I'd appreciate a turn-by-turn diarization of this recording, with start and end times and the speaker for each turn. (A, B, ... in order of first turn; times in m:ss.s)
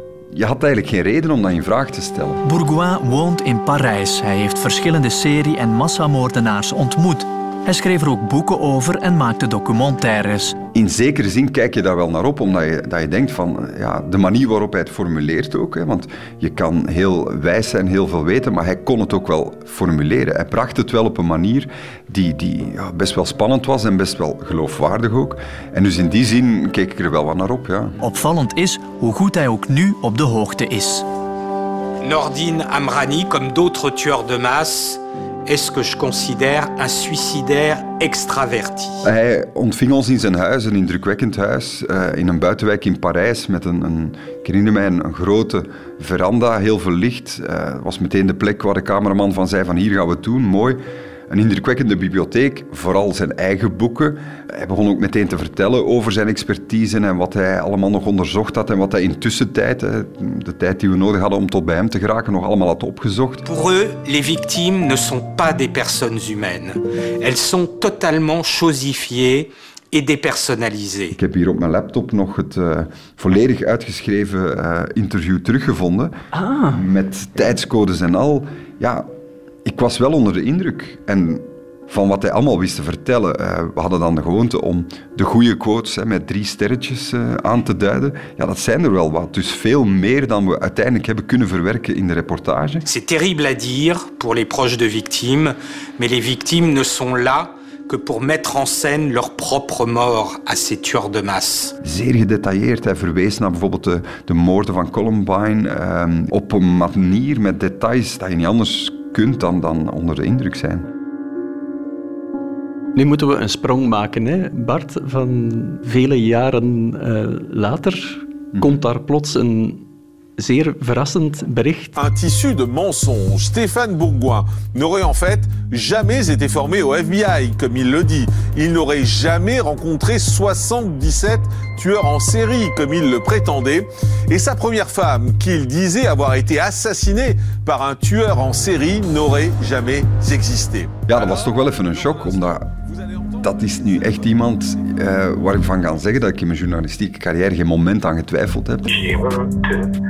0:00.3-0:02.4 A
0:02.4-0:10.5 B
0:10.7-0:27.9 A
0:28.0-0:31.0 B
0:32.0-0:39.0 C
0:39.0-1:03.4 A
1:03.4-1:11.2 C
1:11.2-1:16.2 A
1:16.3-1:16.8 D
1:16.7-1:19.0 A
1:19.6-1:32.8 A
1:32.8-1:41.8 C
1:41.8-1:50.8 A
1:52.9-1:59.8 D
2:00.4-2:01.9 D
2:02.0-2:21.4 E
2:21.1-2:22.7 A
2:23.4-2:28.9 A
2:28.9-2:29.9 C